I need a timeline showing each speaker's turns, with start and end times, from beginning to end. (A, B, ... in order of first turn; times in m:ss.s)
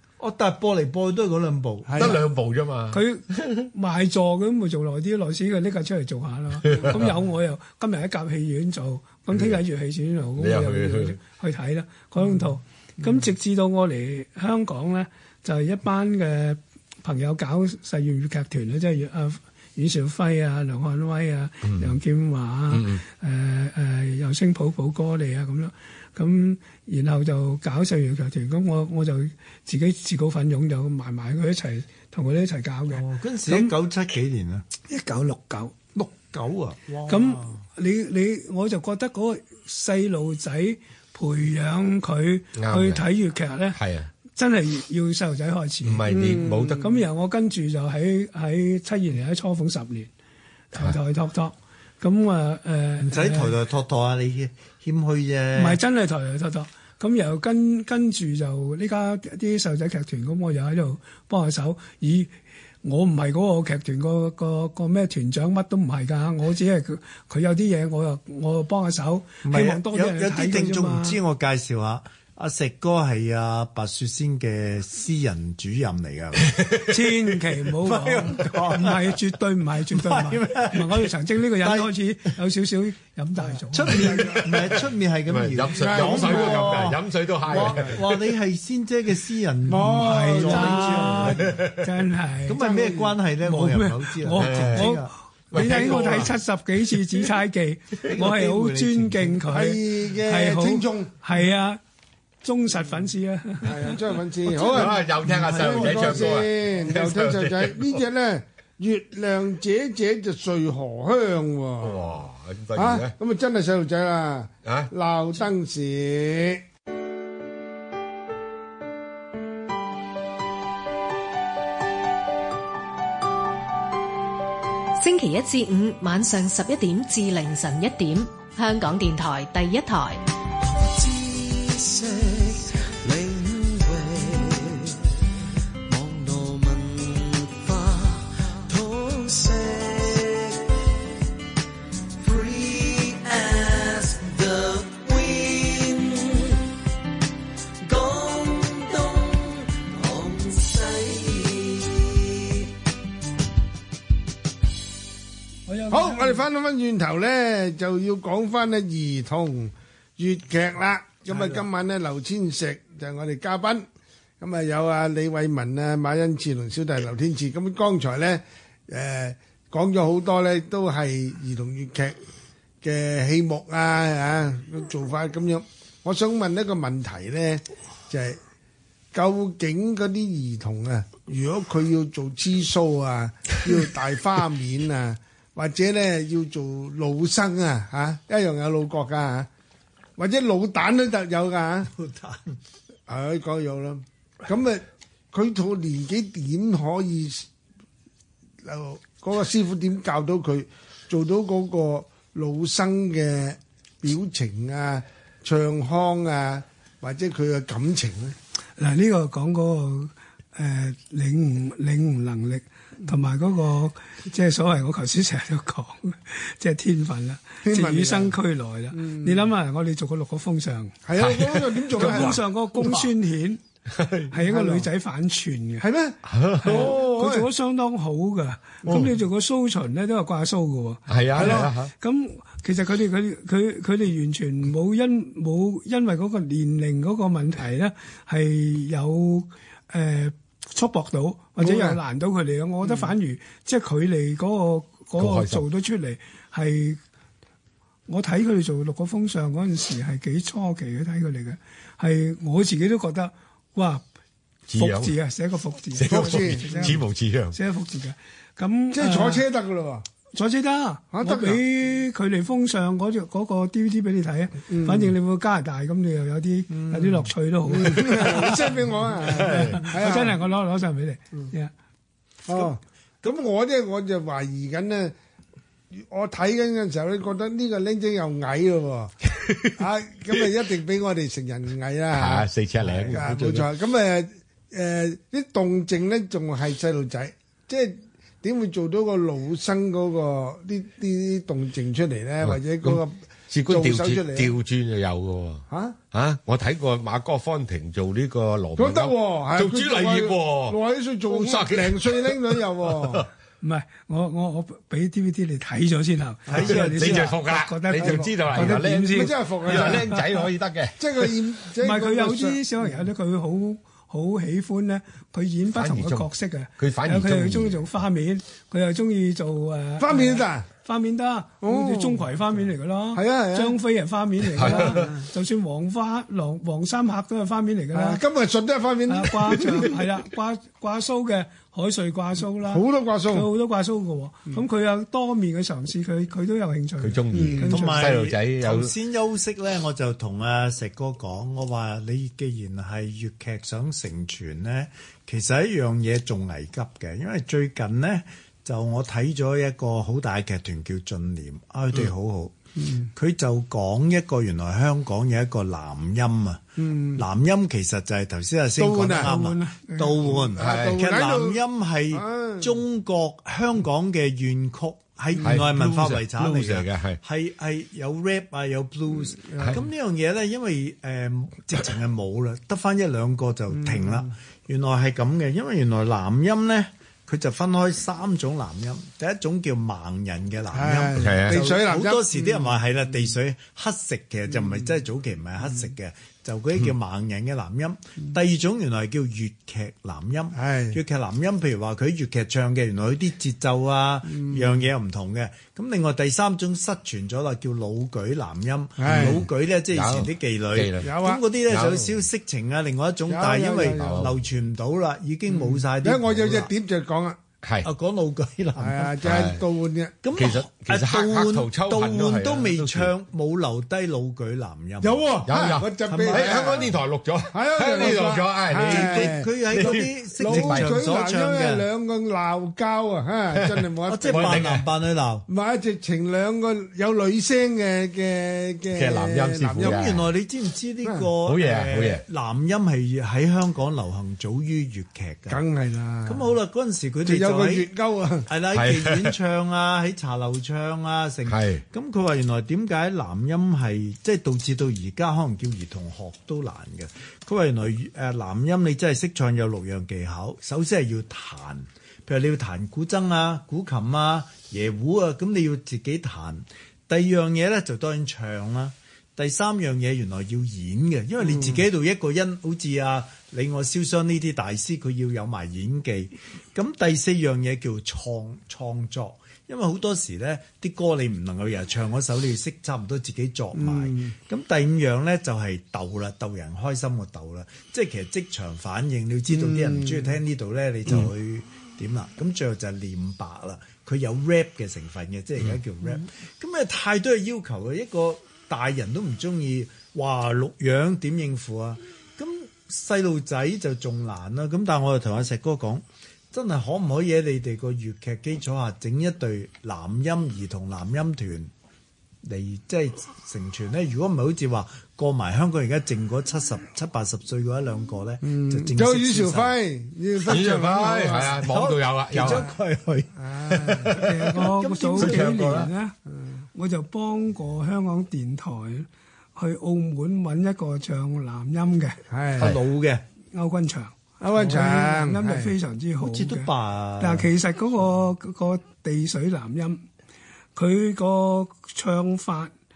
0:00.2-0:02.2 A
0:01.8-0:02.2 B
0:02.0-0:03.7 C
0:02.9-0:33.7 D
0:06.6-0:07.0 C
0:10.4-0:11.2 C
0:22.7-0:23.0 C
0:32.9-0:34.6 A
0:34.9-0:35.8 D
0:35.9-0:37.6 A
0:37.1-0:43.8 D
0:42.6-0:43.0 C
0:43.7-0:44.1 C
0:44.3-0:50.1 D
0:45.8-0:46.9 C
0:46.1-0:46.8 B
0:50.7-0:53.6 D
0:53.0-0:55.8 A
0:55.5-1:11.2 D
1:09.4-1:16.6 A
1:16.9-1:24.3 D
1:17.8-1:19.2 A
1:19.9-1:22.3 A
1:23.5-1:24.8 B
1:23.7-1:31.6 A
1:25.3-1:28.1 C
1:25.7-1:27.0 B
1:27.5-1:28.0 B
1:29.7-1:31.4 B
1:29.9-1:32.7 D
1:31.5-1:31.8 C
1:32.4-1:36.3 A
1:32.6-1:33.1 B
1:33.4-1:41.8 D
1:34.4-1:34.9 C
1:35.5-1:36.4 C
1:38.0-1:39.5 A
1:39.5-1:41.1 B
1:42.4-1:44.0 D
1:43.6-1:52.1 B
1:44.5-1:48.0 C
1:44.5-1:46.4 A
1:51.8-1:53.1 C
1:52.7-1:56.6 B
1:54.6-1:54.9 C
2:05.0-2:10.2 E
2:10.6-2:15.0 F
2:15.9-2:20.7 F
2:22.2-2:26.7 F
2:27.8-2:32.7 F
2:35.7-2:36.4 D
2:35.9-2:43.8 B
2:41.3-2:41.6 A
2:44.4-2:52.2 B
2:52.8-2:58.4 B
2:59.1-3:09.5 B
3:10.2-3:11.9 B
3:11.8-3:12.6 A
3:13.1-3:17.4 B
3:18.6-3:28.3 B
3:28.8-3:41.0 D
3:37.6-3:38.3 B
3:38.9-3:39.4 B
3:41.0-3:42.4 B
3:41.2-3:42.4 C
3:41.9-3:43.6 D
3:43.9-3:44.3 C
3:44.3-3:45.9 D
3:44.3-3:44.9 B
3:45.8-3:47.5 B
3:46.2-3:47.0 C
3:46.6-4:07.0 D
3:51.1-3:51.9 C
3:51.3-3:51.7 B
4:01.6-4:02.0 B
4:05.2-4:05.6 C
4:08.1-4:14.0 D
4:14.7-4:15.1 C
4:14.8-4:17.0 D
4:16.0-4:17.6 C
4:16.1-4:17.0 B
4:17.5-4:19.4 D
4:18.9-4:20.0 B
4:20.3-4:31.7 D
4:21.1-4:21.6 B
4:24.7-4:25.1 B
4:26.7-4:30.4 B
4:29.2-4:29.8 C
4:32.4-4:35.1 B
4:36.0-4:39.1 B
4:39.3-4:39.7 C
4:39.8-4:54.5 B
4:42.1-4:43.7 C
4:42.9-4:43.2 A
4:52.4-5:00.8 C
4:55.7-4:56.0 B
4:58.8-5:03.3 B
5:01.3-5:03.2 C
5:03.6-5:10.5 D
5:06.5-5:06.8 B
5:06.5-5:07.3 A
5:06.6-5:11.3 C
5:08.0-5:10.2 B
5:11.0-5:13.0 B
5:11.8-5:28.2 D
5:15.7-5:16.3 C
5:16.8-5:17.9 C
5:20.0-5:20.7 B
5:21.6-5:22.2 B
5:23.1-5:23.8 B
5:24.6-5:25.1 C
5:24.6-5:25.2 B
5:27.9-5:30.0 B
5:29.1-5:38.1 D
5:32.6-5:33.5 B
5:37.0-5:38.9 C
5:37.3-5:37.7 B
5:37.6-5:52.5 A
5:53.1-6:46.7 A
5:56.8-5:57.2 B
5:58.8-5:59.3 B
5:59.2-6:00.4 D
6:00.2-6:01.6 B
6:00.6-6:01.0 C
6:02.1-6:02.8 B
6:05.4-6:07.2 C
6:09.3-6:09.8 B
6:13.8-6:14.3 B
6:20.7-6:22.8 B
6:21.2-6:21.6 C
6:30.5-6:31.0 B
6:34.3-6:34.7 B
6:39.0-6:39.4 B
6:39.1-6:41.1 C
6:41.0-6:41.4 B
6:41.7-6:42.1 C
6:43.3-6:44.2 B
6:43.9-6:44.3 C
6:45.5-6:47.4 B
6:47.6-6:47.9 C
6:47.8-6:49.2 A
6:48.8-6:50.1 B
6:49.2-6:49.6 C
6:50.2-6:55.5 A
6:50.4-6:53.1 C
6:55.0-6:56.9 B
6:55.5-7:00.9 C
6:56.1-6:56.9 A
6:57.5-7:04.6 B
6:58.8-7:01.9 A
7:03.5-7:04.8 C
7:04.1-7:05.4 A
7:05.5-7:10.0 B
7:08.9-7:10.2 C
7:09.8-7:15.6 A
7:11.4-7:12.2 C
7:15.5-7:16.4 B
7:16.2-7:17.9 A
7:17.2-7:18.4 B
7:18.4-8:21.7 A
7:18.7-7:19.3 C
7:21.5-7:21.8 C
7:41.5-7:41.8 B
7:53.8-7:54.3 B
7:59.5-8:00.4 B
8:22.4-8:29.8 A
8:28.4-8:31.6 B
8:30.4-8:32.7 C
8:31.4-8:35.9 A
8:33.4-8:34.2 B
8:34.1-8:36.2 D
8:35.1-8:35.9 C
8:36.7-8:42.2 D
8:42.3-8:42.7 B
8:42.6-8:43.2 A
8:43.5-8:50.0 D
8:44.4-8:45.7 B
8:46.2-8:47.5 A
8:50.8-8:52.7 D